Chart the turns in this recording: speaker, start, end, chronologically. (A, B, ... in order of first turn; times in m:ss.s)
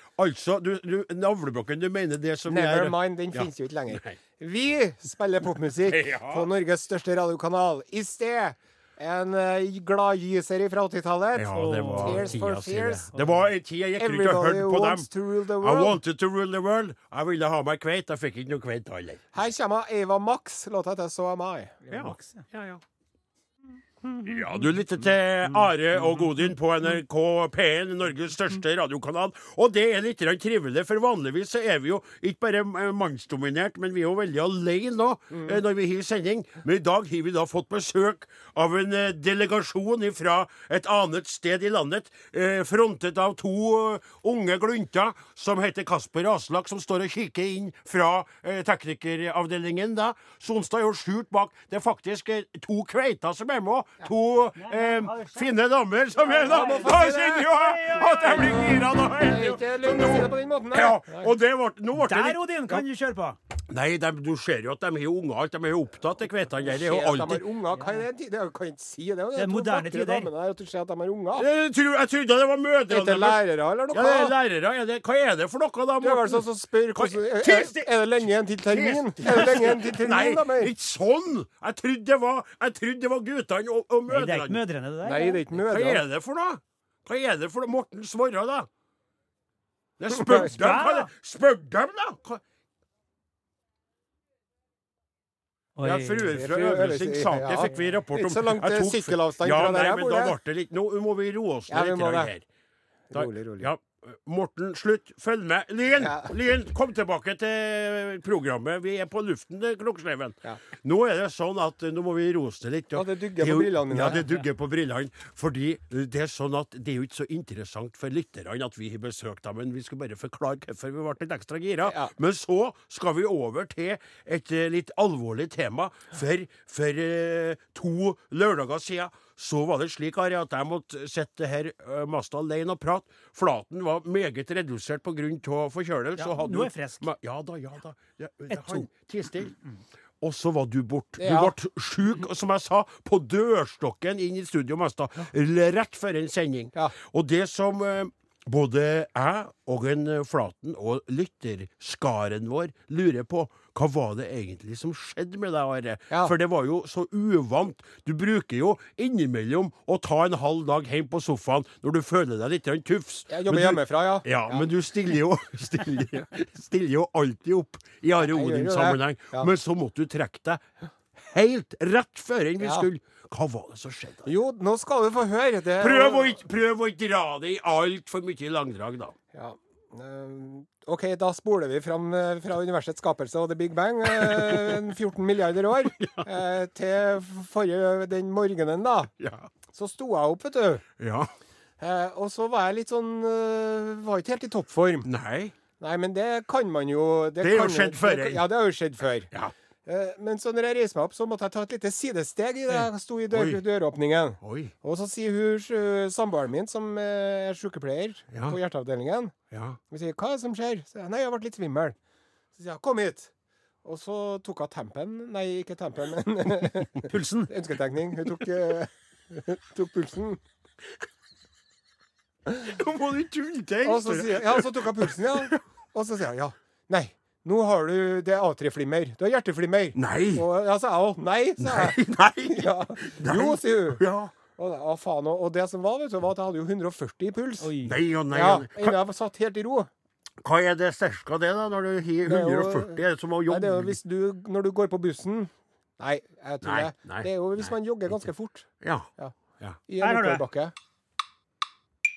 0:00.2-0:04.2 A
0:02.5-0:13.1 B
0:05.9-0:06.5 A
0:11.3-0:15.1 A
0:11.5-0:12.3 C
0:13.1-0:13.4 C
0:14.0-0:16.0 B
0:15.6-0:19.2 A
0:19.3-0:21.8 B
0:21.9-0:22.4 C
0:21.9-0:22.8 A
0:24.2-1:02.8 A
0:35.3-0:35.6 B
0:54.6-0:55.5 C
0:56.2-0:58.8 C
0:56.4-0:57.5 B
0:58.1-1:01.3 B
1:02.0-1:03.4 C
1:03.7-1:07.4 A
1:06.7-1:11.5 B
1:09.4-1:10.3 C
1:11.4-1:24.6 A
1:12.9-1:14.3 B
1:16.0-1:20.7 B
1:24.1-1:25.4 C
1:25.0-1:26.0 B
1:25.5-1:28.7 A
1:30.0-1:32.4 A
1:30.1-1:30.5 B
1:30.3-1:31.1 C
1:35.8-1:36.3 C
1:35.8-1:42.4 A
1:36.3-1:40.4 B
1:41.7-1:42.3 B
1:43.1-1:43.7 B
1:43.1-2:19.5 A
1:46.0-1:46.3 B
1:52.9-1:54.3 B
2:01.8-2:02.1 B
2:16.2-2:17.0 C
2:18.5-2:18.8 C
2:20.2-2:50.6 A
2:21.2-2:21.5 B
2:43.3-2:44.7 B
2:48.2-2:49.5 B
2:51.1-2:54.3 A
2:52.6-2:52.9 B
2:54.2-2:56.4 B
2:55.8-2:59.1 A
2:59.3-3:09.1 B
3:04.1-3:04.8 A
3:05.8-3:06.2 A
3:09.2-3:09.5 A
3:09.7-3:10.8 B
3:11.0-3:11.3 A
3:11.8-3:15.1 B
3:15.0-3:15.5 A
3:15.8-3:19.3 B
3:17.4-3:18.4 A
3:19.8-3:29.3 B
3:22.7-3:23.6 A
3:24.4-3:24.7 A
3:28.3-3:28.6 A
3:29.5-3:29.8 A
3:29.9-3:32.0 B
3:32.6-3:33.3 B
3:33.8-3:40.4 B
3:37.0-3:37.5 A
3:42.6-3:45.6 A
3:43.8-3:52.0 B
3:50.0-3:50.4 A
3:51.6-3:54.3 A
3:52.5-3:54.0 B
3:54.6-3:57.7 B
3:57.6-3:58.0 C
3:57.8-3:59.0 A
3:58.3-3:59.9 B
4:00.4-4:04.0 A
4:02.2-4:09.3 B
4:06.6-4:08.2 A
4:08.8-4:09.1 A
4:09.9-4:10.7 B
4:10.0-4:10.4 C